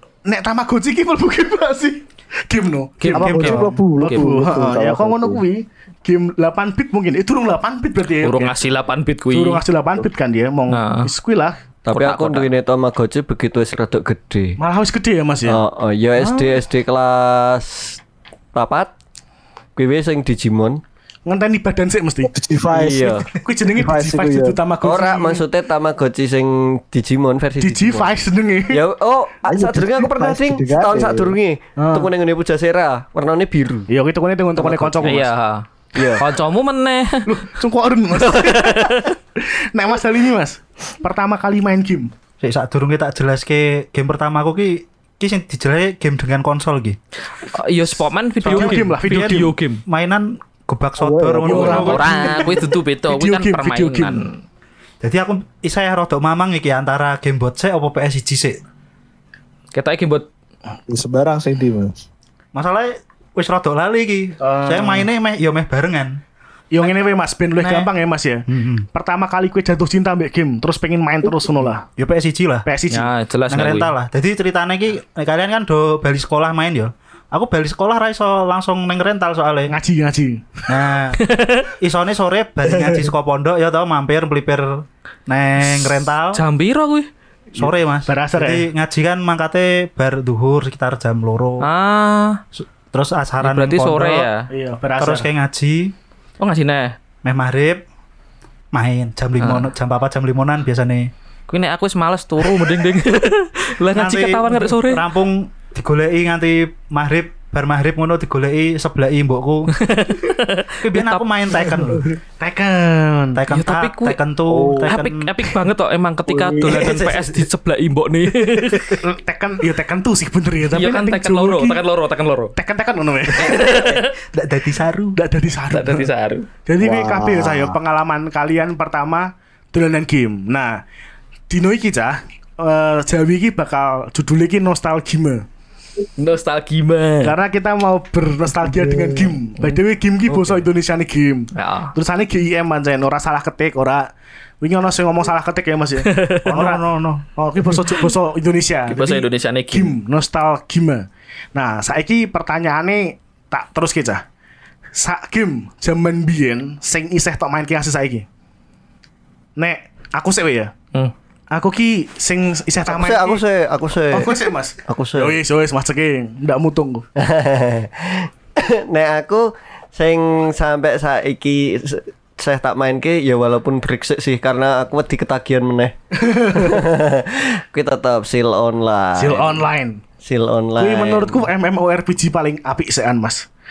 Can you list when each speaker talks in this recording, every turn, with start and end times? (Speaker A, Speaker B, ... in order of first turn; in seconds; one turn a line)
Speaker A: 0.2-8.5
Speaker B: 3.0-4.2
Speaker C: 3.1-3.6
Speaker D: 3.2-5.4
Speaker B: 8.2-9.6
Speaker A: 9.3-11.6
Speaker B: 10.7-11.1
Speaker E: 11.8-14.6
Speaker B: 11.9-12.5
Speaker A: 14.6-15.6
Speaker E: 15.4-18.0
Speaker A: 16.2-16.6
Speaker E: 18.5-18.9
Speaker E: 19.8-20.8
Speaker A: 21.2-22.3
Speaker D: 22.3-24.6
Speaker E: 22.7-23.3
Speaker A: 23.3-25.4
Speaker E: 24.8-28.1
Speaker A: 27.6-28.8
Speaker E: 28.7-33.9
Speaker D: 29.5-31.4
Speaker A: 31.8-32.1
Speaker A: 33.9-35.3
Speaker E: 34.6-35.2
Speaker B: 35.0-35.6
Speaker E: 35.9-36.2
Speaker B: 36.2-37.3
Speaker A: 37.2-42.1
Speaker B: 38.2-39.1
Speaker C: 42.4-47.0
Speaker B: 47.5-49.8
Speaker C: 48.4-52.3
Speaker A: 48.4-49.5
Speaker D: 51.0-52.0
Speaker A: 51.4-54.3
Speaker B: 51.6-54.4
Speaker C: 55.0-58.6
Speaker B: 59.7-60.3
Speaker D: 60.9-62.0
Speaker C: 62.5-66.2
Speaker A: 64.4-65.0
Speaker A: 66.7-71.8
Speaker C: 67.6-67.9
Speaker C: 68.5-68.8
Speaker C: 71.9-72.7
Speaker A: 72.7-73.1
Speaker B: 72.9-73.9
Speaker C: 73.5-79.7
Speaker A: 79.7-80.7
Speaker C: 80.7-81.2
Speaker B: 81.2-81.7
Speaker C: 81.8-86.4
Speaker B: 85.7-87.1
Speaker C: 87.5-91.7
Speaker A: 87.6-88.7
Speaker B: 91.6-92.4
Speaker C: 92.5-94.3
Speaker B: 93.4-94.5
Speaker A: 94.5-95.3
Speaker C: 95.0-95.9
Speaker B: 96.4-96.9
Speaker C: 97.2-97.8
Speaker C: 98.7-101.1
Speaker B: 99.4-99.7
Speaker B: 101.5-105.0
Speaker C: 103.9-109.7
Speaker B: 109.7-111.2
Speaker C: 110.8-112.1
Speaker A: 112.4-113.4
Speaker C: 113.3-115.5
Speaker B: 113.5-114.2
Speaker D: 114.5-115.0
Speaker B: 114.9-119.0
Speaker D: 116.3-116.8
Speaker C: 116.6-117.5
Speaker A: 119.0-121.8
Speaker B: 120.7-122.5
Speaker A: 122.5-123.7
Speaker B: 123.3-124.1
Speaker C: 123.4-125.2
Speaker A: 125.1-126.1
Speaker B: 125.7-126.5
Speaker A: 126.7-130.8
Speaker D: 126.8-127.8
Speaker A: 131.5-135.4
Speaker B: 136.2-137.3
Speaker A: 137.2-154.2
Speaker D: 138.7-139.3
Speaker C: 140.3-140.7
Speaker B: 141.5-141.9
Speaker B: 146.0-146.4
Speaker C: 146.5-147.2
Speaker B: 148.9-149.9
Speaker A: 154.9-158.2
Speaker A: 159.6-160.7
Speaker A: 161.5-163.4
Speaker E: 162.9-165.4
Speaker A: 164.1-167.1
Speaker E: 167.2-175.9
Speaker A: 176.1-176.8
Speaker E: 176.5-179.6
Speaker A: 179.1-180.0
Speaker E: 180.2-181.5
Speaker A: 180.8-183.5